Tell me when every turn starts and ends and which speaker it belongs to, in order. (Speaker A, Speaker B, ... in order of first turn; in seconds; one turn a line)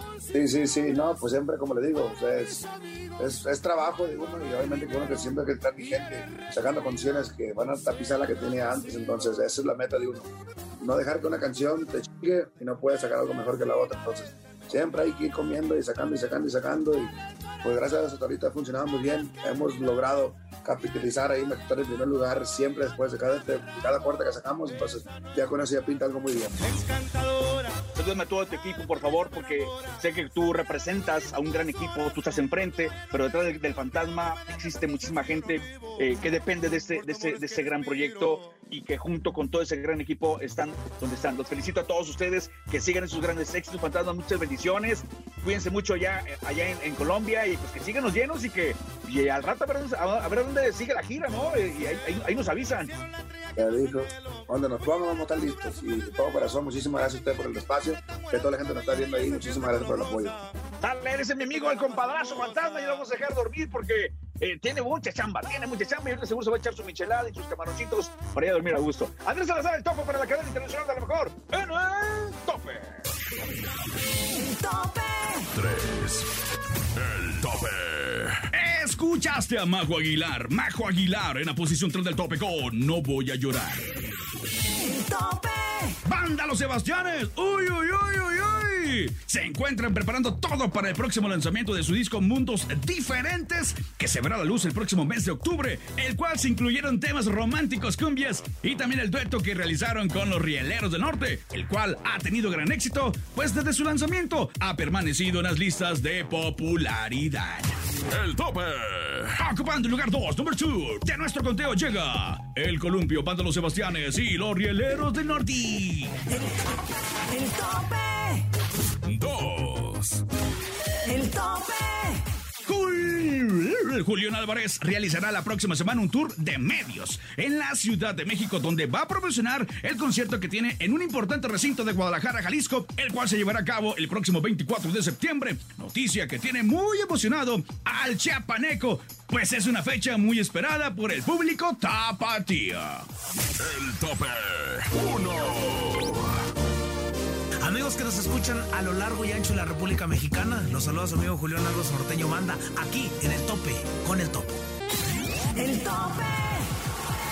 Speaker A: 0.3-26.8
Speaker B: 27.9-53.0
Speaker A: 53.6-60.4
Speaker B: 60.8-73.0
Speaker C: 74.3-75.5
Speaker D: 75.5-76.3
Speaker D: 77.0-78.4
Speaker E: 78.5-83.8
Speaker C: 84.7-86.0
Speaker E: 86.0-107.8
Speaker D: 108.1-109.3
Speaker E: 109.4-116.2
Speaker C: 116.3-116.5
Speaker C: 117.3-118.5
Speaker D: 119.0-120.2
Speaker C: 121.1-122.2
Speaker E: 122.7-143.1
Speaker D: 143.6-146.4
Speaker F: 147.6-154.5
Speaker C: 155.6-156.7